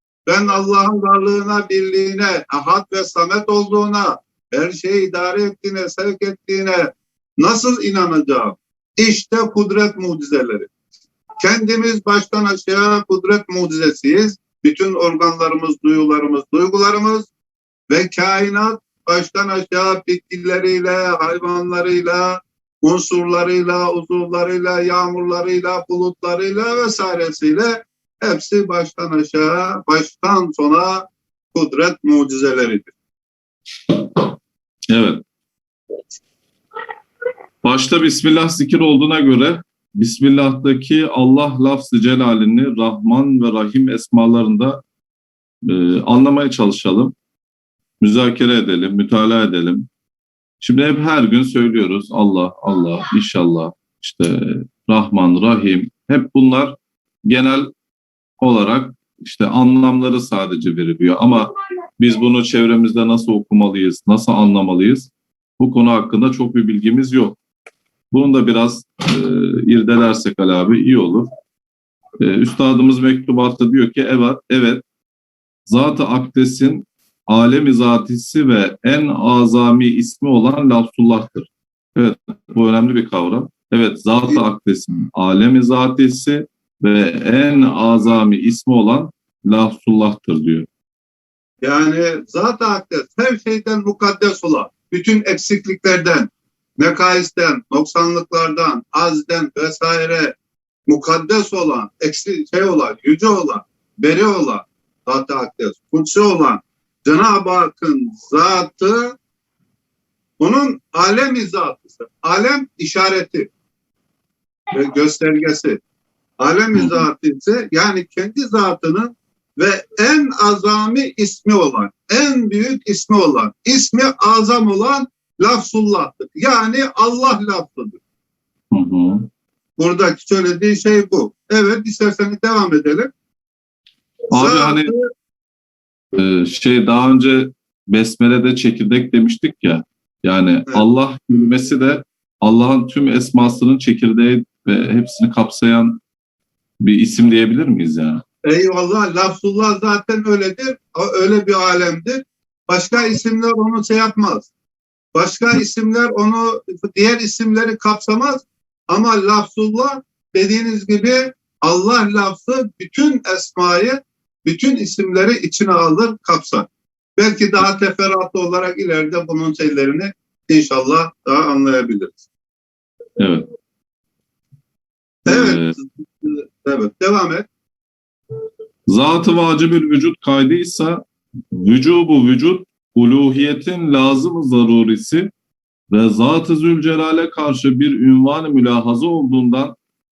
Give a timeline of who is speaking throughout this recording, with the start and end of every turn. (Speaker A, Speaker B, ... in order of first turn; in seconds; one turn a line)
Speaker A: 0.2-10.7
Speaker A: 11.4-17.3
Speaker A: 17.9-32.9
Speaker B: 34.9-35.2
Speaker B: 37.6-44.8
Speaker B: 45.6-47.1
Speaker B: 48.0-49.9
Speaker B: 50.6-56.8
Speaker B: 57.3-57.7
Speaker B: 58.4-67.4
Speaker B: 68.1-71.3
Speaker B: 72.2-74.8
Speaker B: 75.7-90.7
Speaker A: 91.6-100.3
Speaker A: 100.9-109.2
Speaker A: 110.4-113.5
Speaker A: 114.7-115.8
Speaker A: 116.4-128.0
Speaker B: 116.7-117.0
Speaker B: 128.7-129.3
Speaker A: 129.8-133.1
Speaker B: 134.3-134.9
Speaker A: 134.3-135.1
Speaker B: 136.1-146.0
Speaker B: 146.8-148.2
Speaker A: 148.4-154.5
Speaker A: 155.1-172.2
Speaker B: 173.2-173.4
Speaker A: 175.2-177.5
Speaker B: 175.3-175.7
Speaker B: 178.9-181.0
Speaker B: 181.5-185.3
Speaker B: 185.9-189.7